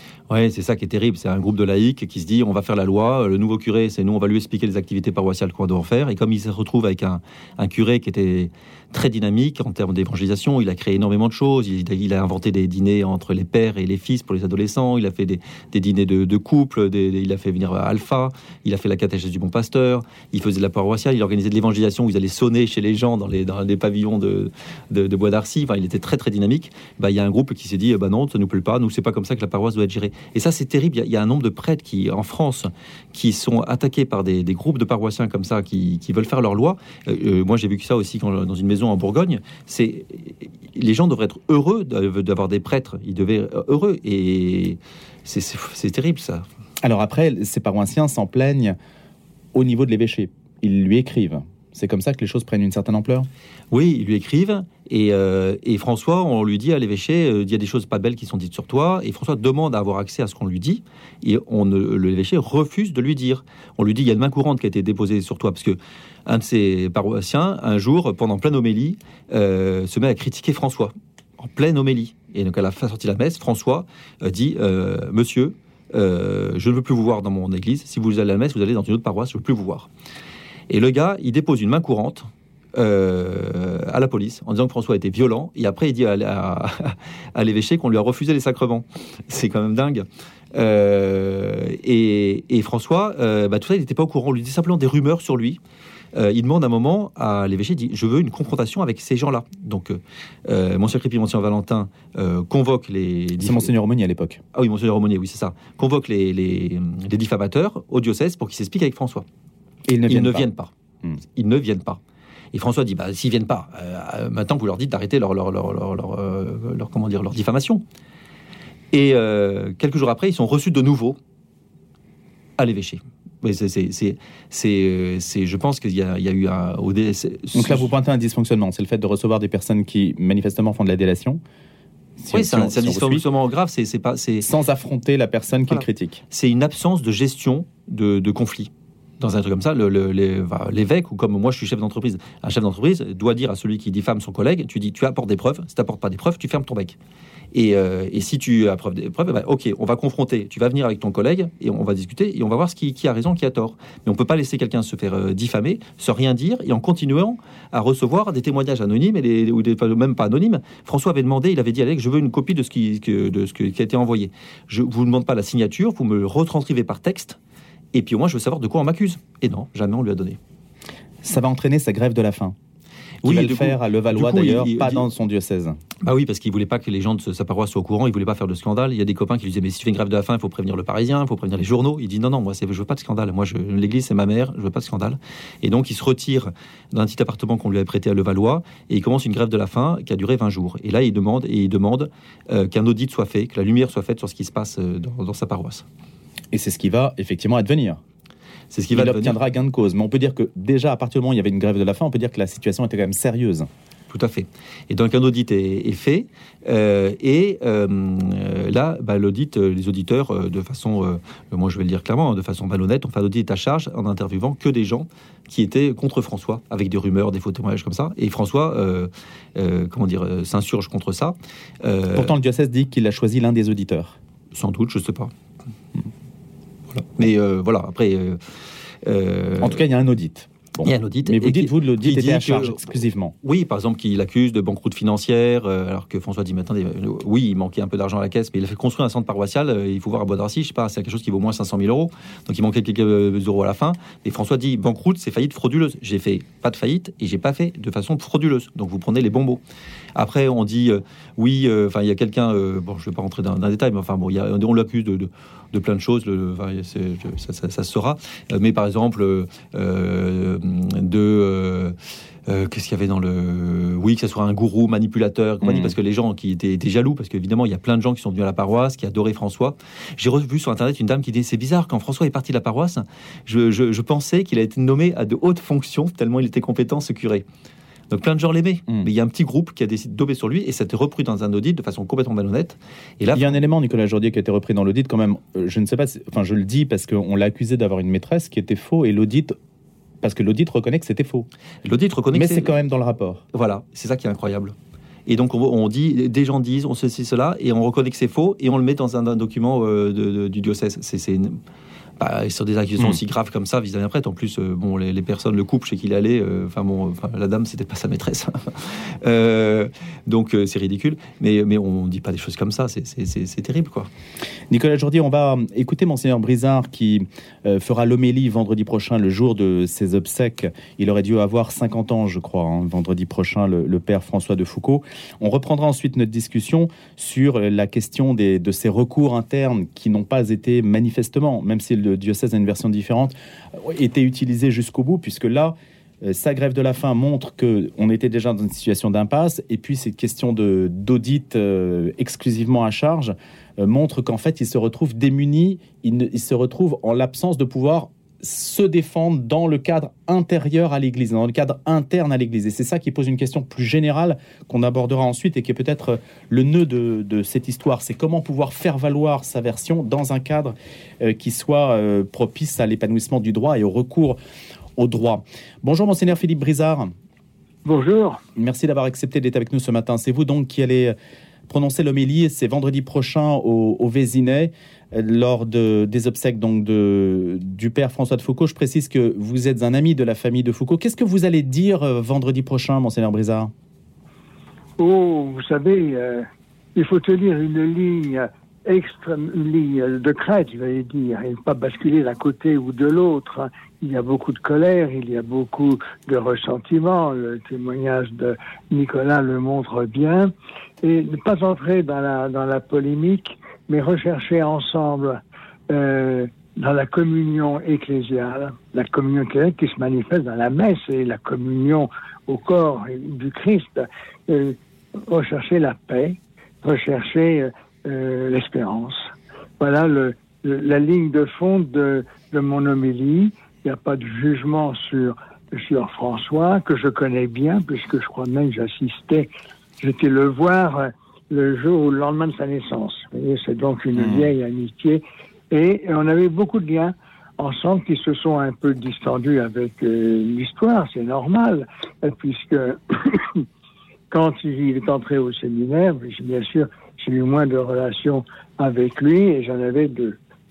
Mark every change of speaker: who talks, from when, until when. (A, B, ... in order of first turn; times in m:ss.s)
0:00.3-0:46.5 A
0:46.8-0:48.8 B
0:49.6-0:53.3 B
0:53.7-1:19.9 A
1:20.7-1:35.6 A
1:36.1-1:43.7 A
1:43.4-1:44.4 B
1:44.5-1:49.3 A
1:49.9-1:50.5 B
1:50.1-1:50.7 A
1:51.3-1:52.0 A
1:52.5-1:57.8 A
1:58.9-2:01.2 A
2:02.6-2:07.9 A
2:07.6-2:11.4 B
2:12.2-2:13.3 B
2:12.3-2:14.5 A
2:14.4-2:16.2 B
2:15.7-2:27.0 A
2:27.5-2:47.4 A
2:47.9-2:50.4 A
2:51.2-2:52.6 B
2:53.2-2:55.0 A
2:53.2-2:55.8 B
2:56.0-3:15.9 A
3:16.5-3:18.0 B
3:18.7-3:19.4 A
3:18.9-3:23.7 B
3:24.1-3:42.4 A
3:42.1-3:44.2 B
3:44.5-3:45.3 A
3:46.9-3:48.4 A
3:49.0-3:49.8 A
3:49.6-3:53.3 B
3:50.8-4:09.6 A
4:10.2-4:22.0 A
4:22.5-4:37.4 A
4:25.6-4:26.0 B
4:38.1-4:43.5 A
4:43.3-4:49.6 B
4:50.2-4:51.5 B
4:51.8-4:52.7 A
4:52.3-4:53.4 B
4:53.5-4:54.7 A
4:55.3-5:01.6 A
5:02.2-5:14.1 A
5:14.7-6:04.4 B
6:05.0-6:07.1 B
6:07.8-6:08.4 C
6:08.6-6:11.2 B
6:11.7-6:23.7 B
6:25.0-6:40.5 C
6:41.0-6:59.2 C
6:59.8-7:09.5 C
7:10.0-7:23.6 C
7:14.1-7:14.5 B
7:24.3-7:30.4 C